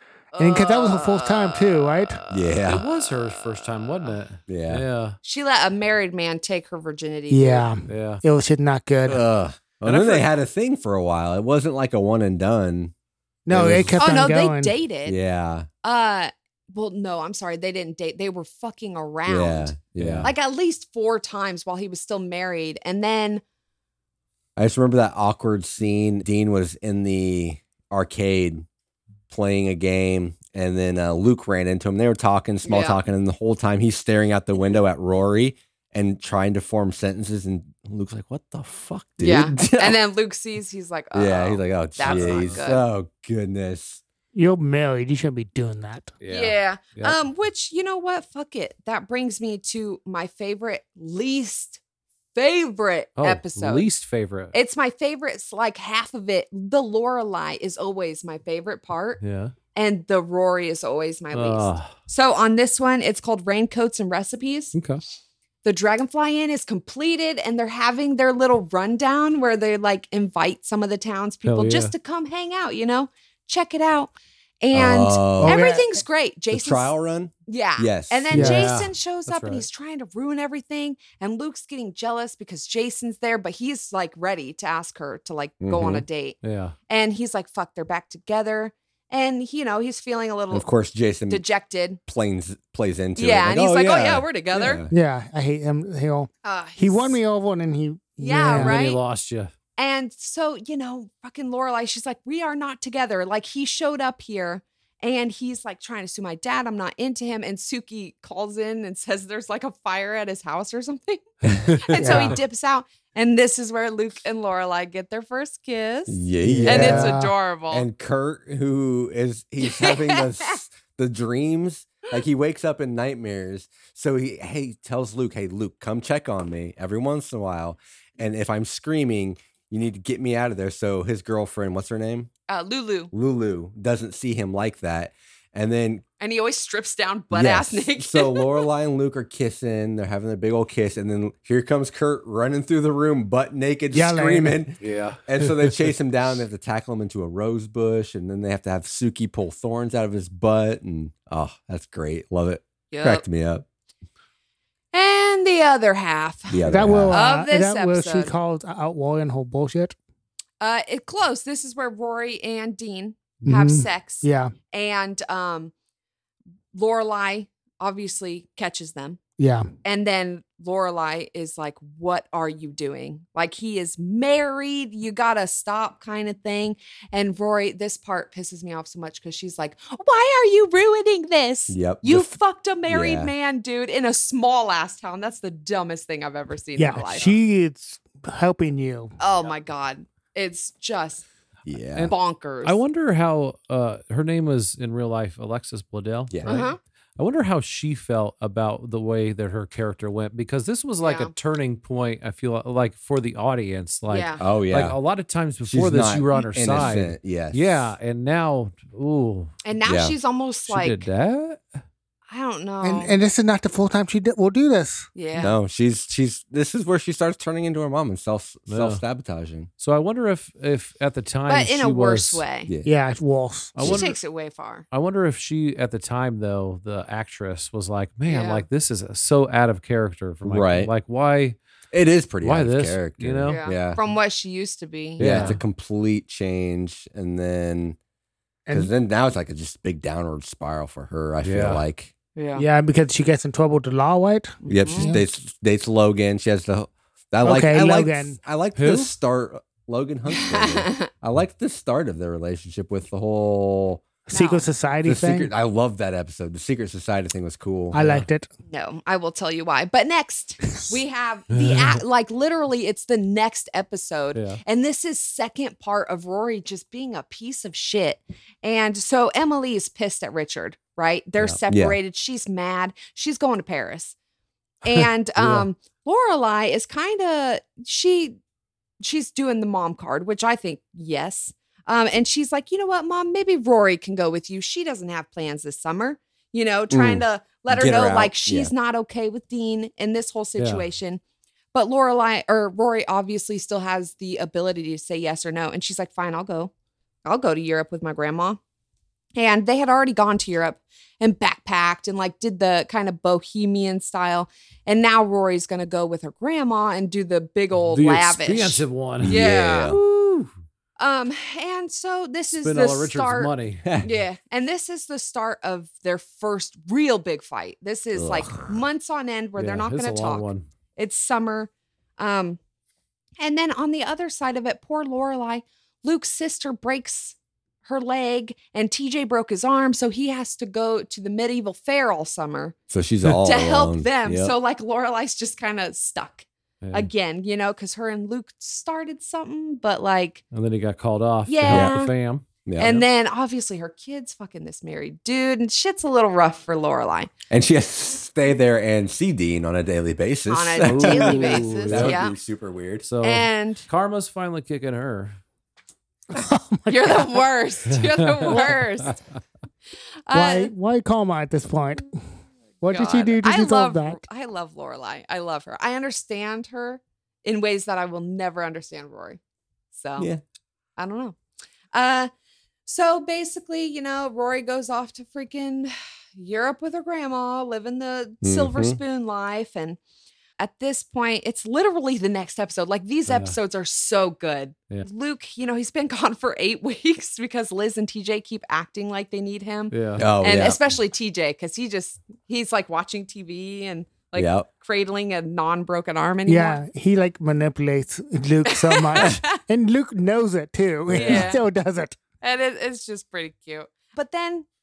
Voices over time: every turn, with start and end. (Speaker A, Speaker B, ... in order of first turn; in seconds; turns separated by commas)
Speaker A: 0.3-4.1, Speaker B: 0.4-2.2, Speaker C: 2.3-2.8, Speaker D: 2.7-5.2, Speaker C: 4.5-4.8, Speaker A: 5.2-7.7, Speaker B: 7.3-9.2, Speaker D: 7.9-8.2, Speaker C: 9.1-12.9, Speaker D: 9.8-10.3, Speaker B: 13.4-14.7, Speaker C: 13.5-14.0, Speaker A: 14.0-15.2, Speaker C: 15.0-15.7, Speaker A: 15.8-23.4, Speaker C: 19.2-20.3, Speaker D: 20.0-20.3, Speaker C: 24.6-28.6, Speaker C: 29.3-40.0, Speaker A: 32.6-33.0, Speaker A: 39.2-42.8, Speaker C: 41.1-44.0, Speaker D: 42.0-42.6, Speaker B: 44.3-46.1, Speaker D: 46.2-47.2, Speaker A: 46.3-51.8, Speaker A: 52.3-53.9, Speaker D: 53.2-54.5, Speaker A: 54.5-59.2, Speaker D: 59.2-59.5, Speaker A: 59.7-64.7, Speaker D: 61.3-61.9, Speaker D: 64.7-65.0, Speaker A: 65.6-76.9, Speaker D: 71.4-71.9, Speaker C: 74.7-75.6, Speaker B: 75.4-75.9, Speaker C: 76.5-78.6, Speaker A: 77.5-86.4, Speaker B: 78.3-78.7, Speaker D: 78.4-79.6, Speaker C: 85.6-86.0, Speaker D: 86.4-86.8, Speaker A: 86.9-90.7, Speaker C: 90.5-91.4, Speaker A: 91.3-92.0, Speaker C: 92.1-94.9, Speaker A: 93.2-94.8, Speaker B: 94.9-98.7, Speaker A: 96.4-97.2, Speaker A: 98.2-99.0, Speaker D: 98.5-99.5, Speaker A: 99.8-111.2, Speaker C: 111.5-112.3, Speaker A: 111.8-117.9, Speaker B: 112.0-112.4, Speaker C: 116.1-117.2, Speaker B: 116.4-117.3, Speaker C: 117.7-132.3, Speaker A: 119.6-120.3, Speaker A: 132.5-133.1, Speaker C: 133.1-136.0, Speaker A: 136.2-138.7, Speaker C: 137.3-153.6, Speaker B: 143.9-144.6, Speaker D: 144.8-145.8, Speaker A: 152.9-153.2, Speaker A: 154.9-158.3, Speaker C: 156.5-157.2, Speaker B: 156.6-159.9, Speaker A: 160.6-165.7, Speaker B: 163.4-164.5, Speaker A: 166.7-169.2, Speaker B: 169.4-169.7, Speaker A: 169.8-187.3, Speaker C: 181.7-182.3, Speaker C: 182.9-183.3, Speaker B: 186.8-189.1, Speaker A: 189.2-191.2, Speaker C: 191.7-192.1, Speaker D: 191.9-209.6, Speaker A: 192.1-192.8, Speaker C: 196.3-196.7, Speaker A: 196.4-196.8, Speaker A: 201.0-201.3, Speaker A: 204.1-204.4, Speaker C: 204.4-205.0, Speaker C: 205.7-207.9, Speaker A: 209.6-211.1, Speaker C: 209.8-210.1, Speaker D: 210.7-211.8, Speaker A: 212.3-213.2, Speaker B: 212.8-215.1, Speaker A: 215.1-215.6, Speaker C: 215.3-219.7, Speaker D: 218.7-219.0, Speaker D: 219.8-222.4, Speaker A: 221.5-222.7, Speaker B: 222.8-223.8, Speaker D: 223.8-224.2, Speaker A: 223.8-224.8, Speaker D: 224.9-231.6, Speaker A: 228.3-228.6, Speaker C: 230.4-230.9, Speaker C: 231.9-234.0, Speaker D: 232.4-233.6, Speaker A: 233.5-235.5, Speaker D: 235.2-235.6, Speaker C: 235.2-238.0, Speaker C: 238.7-242.1, Speaker D: 241.4-241.8, Speaker A: 242.3-242.7, Speaker B: 242.5-245.2, Speaker A: 244.6-245.2, Speaker C: 244.7-254.1, Speaker B: 247.4-248.4, Speaker D: 248.8-249.1, Speaker A: 250.3-251.1, Speaker B: 254.3-255.5, Speaker A: 254.3-254.7, Speaker C: 255.0-258.0, Speaker B: 257.9-258.5, Speaker D: 258.0-258.2, Speaker A: 258.7-274.1, Speaker D: 261.5-262.0, Speaker D: 264.3-264.6, Speaker C: 271.7-272.0, Speaker A: 274.8-278.4, Speaker D: 275.0-275.7, Speaker A: 279.0-291.2, Speaker C: 286.9-288.7, Speaker D: 290.6-290.8, Speaker A: 291.7-296.7, Speaker A: 297.2-298.6, Speaker A: 299.4-310.0, Speaker D: 307.8-310.5, Speaker C: 309.2-310.0, Speaker A: 311.0-322.6, Speaker D: 312.5-313.8, Speaker C: 313.8-314.1, Speaker C: 318.1-318.8, Speaker D: 319.6-320.6, Speaker A: 323.4-332.8, Speaker C: 332.9-334.5, Speaker A: 333.4-340.4, Speaker D: 336.8-337.1, Speaker D: 340.5-343.0, Speaker A: 341.4-342.1, Speaker C: 341.7-341.9, Speaker C: 342.6-343.0, Speaker A: 342.8-347.3, Speaker C: 347.5-353.1, Speaker A: 350.5-352.4, Speaker D: 350.8-352.2, Speaker D: 353.0-355.4, Speaker A: 353.2-353.8, Speaker B: 356.3-357.4, Speaker A: 356.9-359.2, Speaker D: 357.9-359.1, Speaker A: 360.3-360.7, Speaker B: 360.3-362.1, Speaker B: 362.8-364.2, Speaker A: 362.9-369.4, Speaker A: 369.9-370.3, Speaker A: 371.0-371.4, Speaker A: 371.9-372.3, Speaker A: 372.9-380.0, Speaker C: 378.4-379.0, Speaker A: 380.6-396.8, Speaker D: 383.3-383.6, Speaker D: 389.9-390.3, Speaker C: 390.2-390.8, Speaker C: 394.3-394.7, Speaker B: 396.5-402.2, Speaker A: 398.7-399.6, Speaker C: 401.1-401.5, Speaker A: 401.1-401.6, Speaker A: 402.4-404.6